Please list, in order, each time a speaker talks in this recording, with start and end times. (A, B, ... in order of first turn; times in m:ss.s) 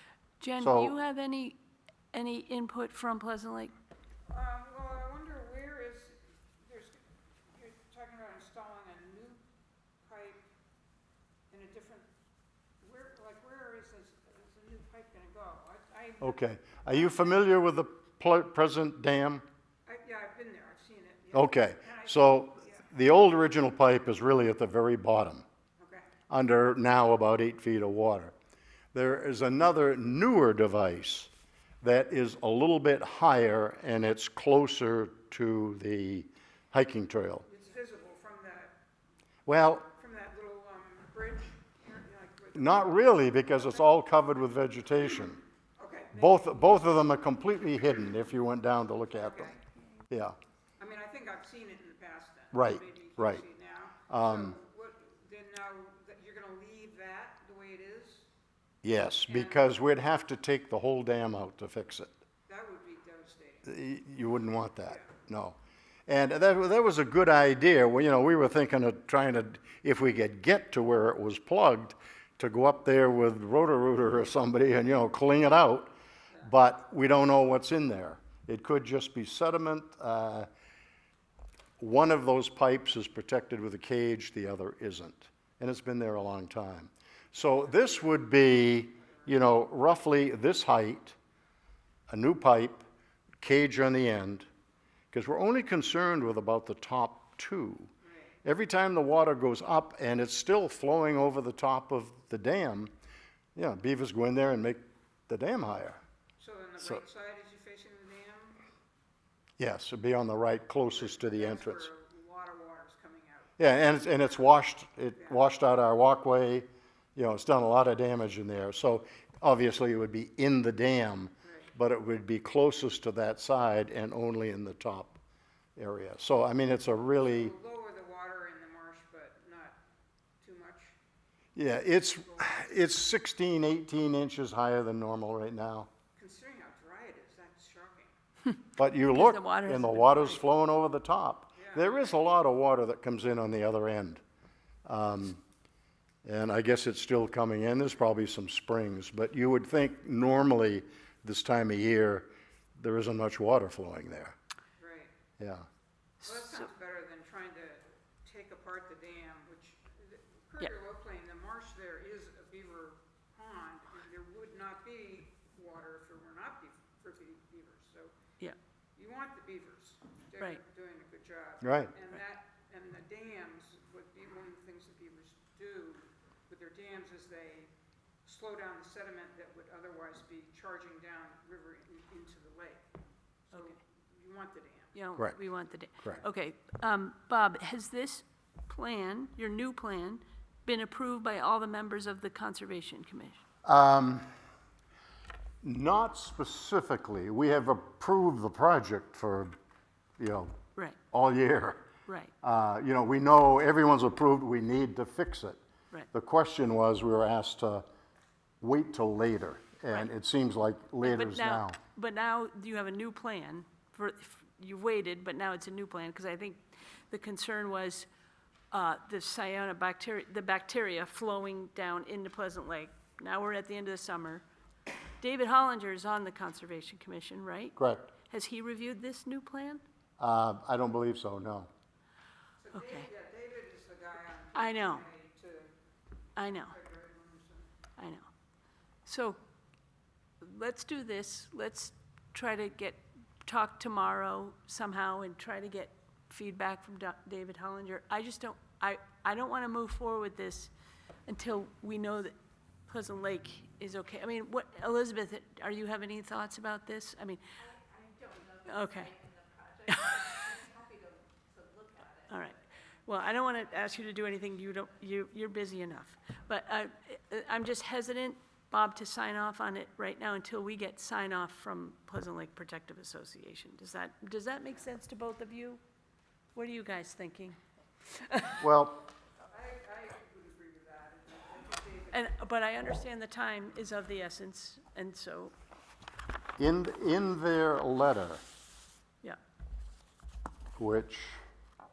0:00.4-0:01.6 A
0:00.6-0:00.9 B
0:02.1-0:03.7 A
0:04.3-0:07.0 C
0:07.5-0:09.4 C
0:10.0-0:10.4 C
0:11.5-0:12.1 C
0:12.8-0:17.4 C
0:16.2-0:19.4 B
0:19.8-0:22.9 C
0:21.3-0:25.4 B
0:25.8-0:26.1 C
0:26.3-0:28.3 B
0:28.9-0:31.3 B
0:31.8-0:37.4 B
0:37.4-0:38.8 C
0:39.4-0:39.9 B
0:39.9-0:43.9 C
0:42.5-0:45.4 B
0:45.8-0:46.9 C
0:46.1-0:49.5 B
0:49.1-0:49.6 C
0:50.1-0:50.4 B
0:50.8-0:58.3 C
0:52.5-0:53.4 B
0:54.1-0:54.5 B
0:58.8-1:02.1 B
0:59.2-0:59.8 C
1:02.5-1:03.7 C
1:03.6-1:20.5 B
1:21.8-1:31.2 B
1:32.1-1:32.8 B
1:33.4-1:34.5 B
1:35.1-1:37.9 B
1:38.0-1:38.3 C
1:38.4-1:42.9 B
1:43.6-1:46.0 B
1:46.4-1:48.6 C
1:49.6-1:51.9 B
1:50.9-1:53.6 C
1:53.6-2:05.2 B
2:01.4-2:01.7 C
2:05.8-2:07.5 B
2:07.2-2:09.8 C
2:10.4-2:11.0 C
2:11.5-2:15.9 B
2:12.2-2:12.6 C
2:16.2-2:18.1 C
2:18.8-2:24.2 B
2:19.1-2:20.4 A
2:21.6-2:22.2 C
2:24.8-2:25.4 B
2:26.2-2:34.3 B
2:34.8-2:35.1 C
2:35.4-2:35.6 B
2:36.2-2:48.1 C
2:36.3-2:36.7 A
2:49.0-2:57.7 C
2:51.6-2:51.9 B
2:58.2-3:02.8 C
3:03.5-3:04.9 C
3:03.5-3:03.8 A
3:04.9-3:13.4 A
3:13.6-3:14.3 B
3:15.6-3:19.5 B
3:20.2-3:20.5 B
3:21.1-3:21.8 B
3:22.0-3:22.3 A
3:22.4-3:25.6 B
3:26.1-3:27.8 B
3:28.6-3:31.8 B
3:31.0-3:38.1 A
3:38.7-3:44.4 A
3:45.2-3:49.8 A
3:47.8-3:48.1 B
3:50.2-3:51.7 B
3:52.6-3:55.7 C
3:52.7-3:53.0 A
3:54.5-3:55.0 A
3:56.4-3:56.7 A
3:56.4-3:57.7 C
3:58.0-3:58.3 A
3:59.0-3:59.4 A
4:00.4-4:10.7 A
4:11.3-4:12.3 A
4:12.9-4:17.4 A
4:17.7-4:22.3 D
4:18.6-4:19.2 A
4:19.9-4:20.4 A
4:22.3-4:35.8 A
4:36.5-4:38.6 A
4:38.6-4:39.0 B
4:39.4-4:42.3 C
4:42.1-4:45.5 A
4:46.6-4:48.4 B
4:50.8-4:51.4 B